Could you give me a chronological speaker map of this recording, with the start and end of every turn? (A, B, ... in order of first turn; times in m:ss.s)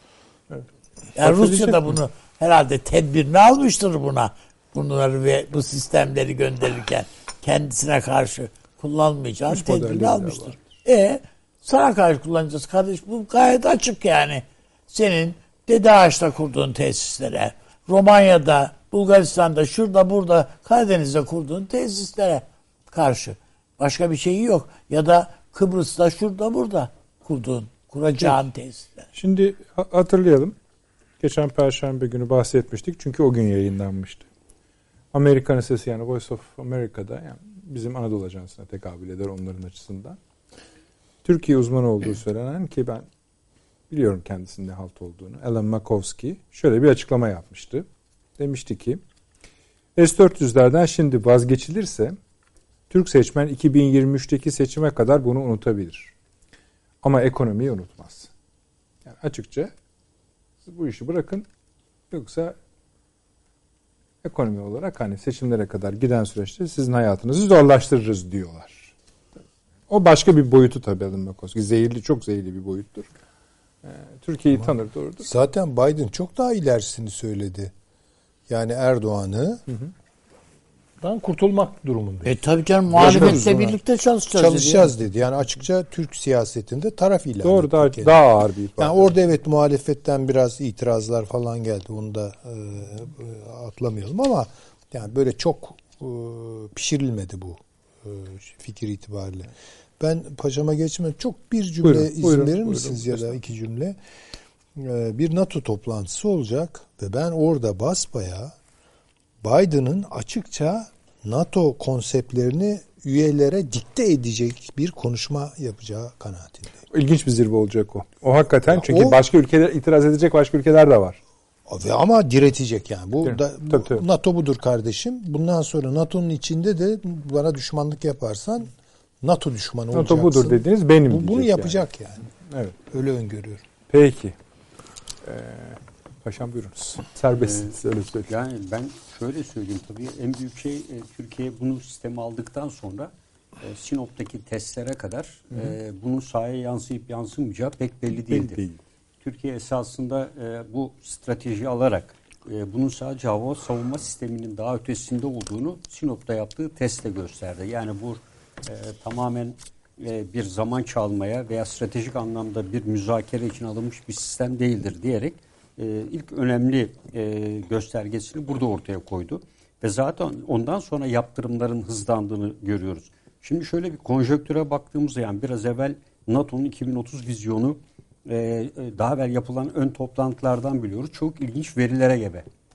0:00.5-0:02.0 A
0:01.2-0:29.1 B
0:09.5-0:10.7 A
0:29.1-0:30.6 A
0:31.2-0:34.2 A
0:35.1-0:40.2 A
0:41.2-0:43.0 A
0:43.9-0:47.8 A
0:48.4-0:49.0 A
0:50.0-0:52.2 A
0:52.9-0:56.1 A
0:57.0-0:58.3 A
0:59.0-0:59.7 A
1:00.6-1:01.4 A
1:02.1-1:02.6 A
1:04.2-1:08.9 A
1:09.9-1:13.1 A
1:13.8-1:15.3 A
1:15.2-1:17.7 C
1:18.5-1:19.6 C
1:21.0-1:23.7 C
1:22.2-1:24.9 B
1:22.9-1:23.7 A
1:24.3-1:28.2 C
1:27.4-1:29.1 A
1:28.8-1:44.0 C
1:41.8-1:43.4 A
1:44.7-1:48.5 C
1:49.4-1:56.8 C
1:56.9-2:01.2 A
1:58.7-1:59.2 C
2:01.7-2:12.3 C
2:03.2-2:04.0 A
2:09.9-2:11.8 A
2:12.4-2:12.8 A
2:12.9-2:13.6 C
2:13.9-2:14.3 A
2:15.2-2:18.3 A
2:17.4-2:17.7 D
2:18.3-2:28.6 D
2:25.5-2:25.8 A
2:28.1-2:28.8 A
2:29.2-3:02.5 D